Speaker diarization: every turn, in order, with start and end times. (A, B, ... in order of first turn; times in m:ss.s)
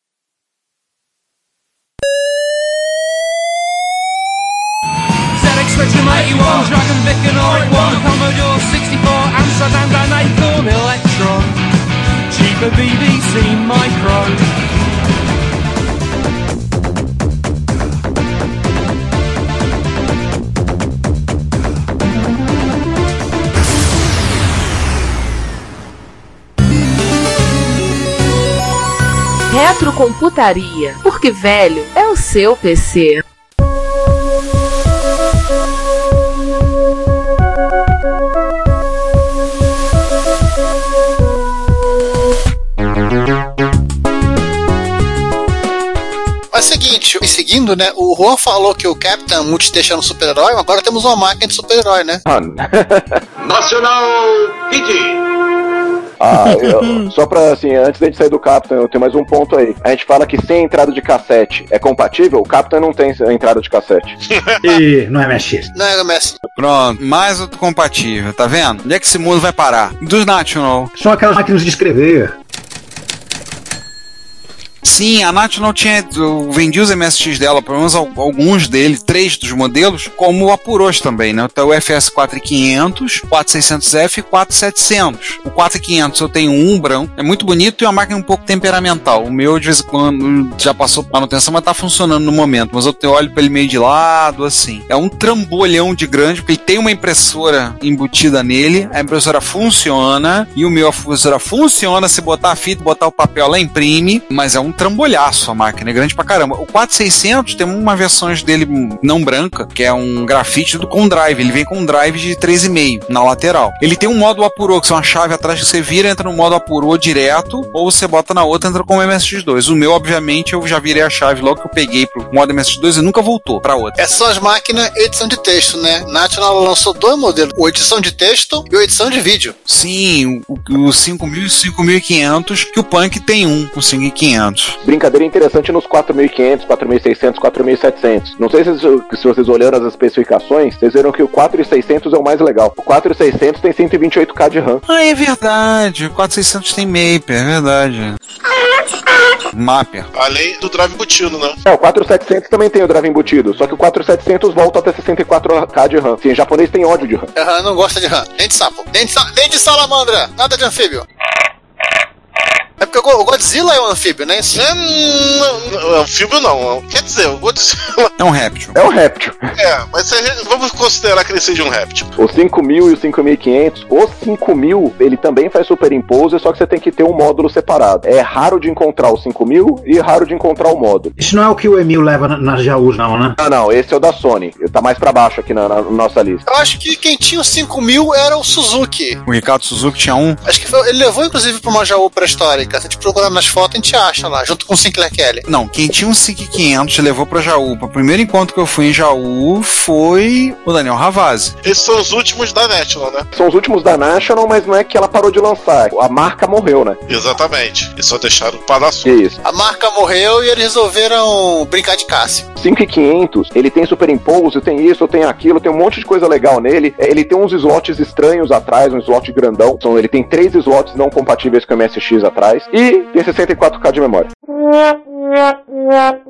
0:05.3-0:11.6 A
0:12.3-0:14.5 A
0:29.5-0:33.2 B
0:46.5-0:52.2 C
0:52.2-0:53.2 D
0:56.2-1:04.2 D
1:04.3-1:04.8 E
1:04.6-1:05.7 F
1:05.7-1:06.4 C
1:06.6-1:10.9 G
1:10.9-1:12.3 F
1:14.8-2:04.0 G
2:04.0-2:09.5 C
2:09.7-2:14.8 G
2:14.8-2:24.8 D
2:24.9-2:28.2 G
2:29.5-2:30.1 G
2:30.1-2:31.6 E
2:31.6-2:37.3 D
2:37.3-2:41.0 C
2:42.8-2:44.6 C
2:44.5-2:48.1 E
2:48.2-2:48.7 G
2:48.7-2:49.5 D
2:49.6-2:52.1 E
2:52.2-3:01.1 D
3:01.2-3:03.4 F
3:03.4-3:06.4 D
3:06.4-3:09.2 C
3:09.2-3:10.4 G
3:10.4-3:15.4 C
3:15.4-3:21.5 G
3:21.6-3:23.2 E
3:23.3-3:27.0 D
3:27.1-3:29.2 E
3:29.0-3:29.4 D
3:29.4-3:32.4 C
3:32.6-3:44.3 D